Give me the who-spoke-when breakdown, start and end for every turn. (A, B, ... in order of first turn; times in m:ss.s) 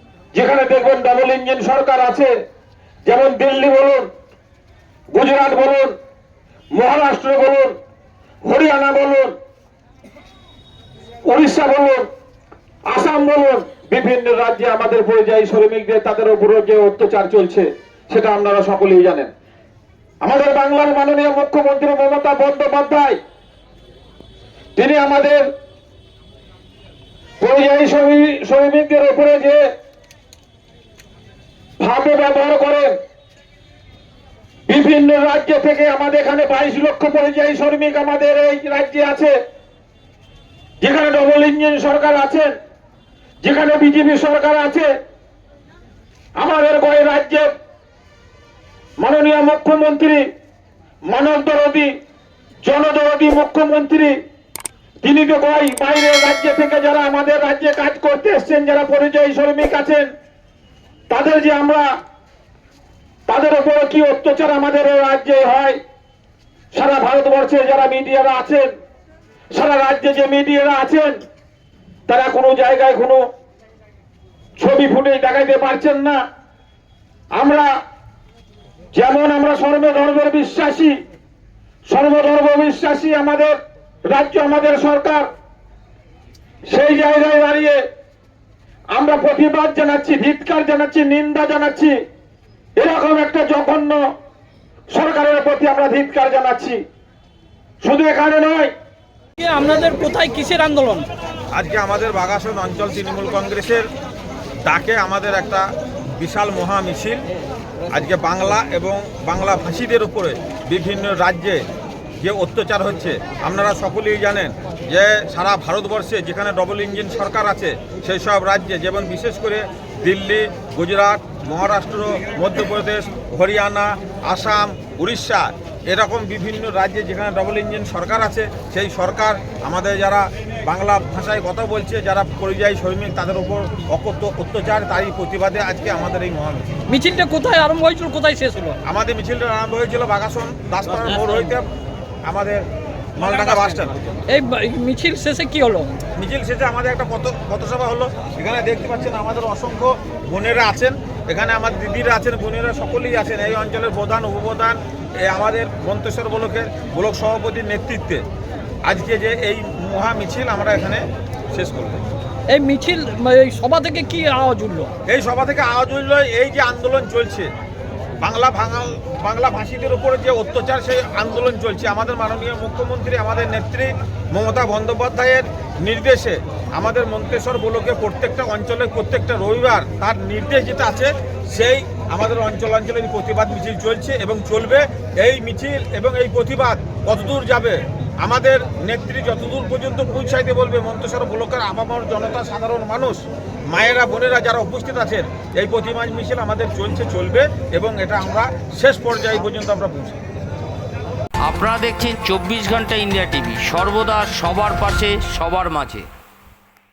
0:00.3-0:02.3 A
0:03.1-0:04.1 A
0:05.1-0:06.0 A
0:06.7-0:07.8 A
0:08.4-0:09.3 A
0:11.3-0:12.0 A
0:12.9-0:19.3 A
0:20.2-0:23.2 A
0:24.8-0:25.5 A
0:27.4-0:29.6 A
0:31.8-0:32.9 A
0:34.7-0:39.3 A
0:40.8-0:42.5 A
0:43.4-0:44.9 A
0:46.4-0:47.5 A
0:49.0-0:50.2 A
0:51.1-0:51.9 A
0:52.6-0:54.2 A
0:55.0-1:00.1 A
1:01.1-1:01.9 A
1:03.3-1:05.8 A
1:06.7-1:08.7 A
1:09.5-1:11.2 A
1:12.1-1:13.2 A
1:14.6-1:16.2 A
1:17.3-1:17.7 A
1:18.9-1:21.0 A
1:21.9-1:23.6 A
1:24.1-1:25.3 A
1:26.7-1:27.8 A
1:28.9-1:32.0 A
1:32.8-1:34.0 A
1:34.9-1:36.8 A
1:37.8-1:38.7 A
1:39.4-1:41.1 B
1:41.5-1:43.9 C
1:44.6-1:45.6 C
1:46.2-1:47.2 C
1:47.9-1:51.6 C
1:52.2-2:16.7 C
2:16.9-2:18.8 B
2:18.9-2:21.7 C
2:22.3-2:22.6 C
2:23.2-2:23.9 C
2:23.3-2:23.7 B
2:24.3-2:25.9 B
2:26.2-2:38.2 C
2:38.9-2:41.0 C
2:41.5-2:42.0 C
2:42.5-2:44.9 B
2:45.1-2:47.5 C
2:48.2-3:20.2 C
3:21.4-3:26.1 D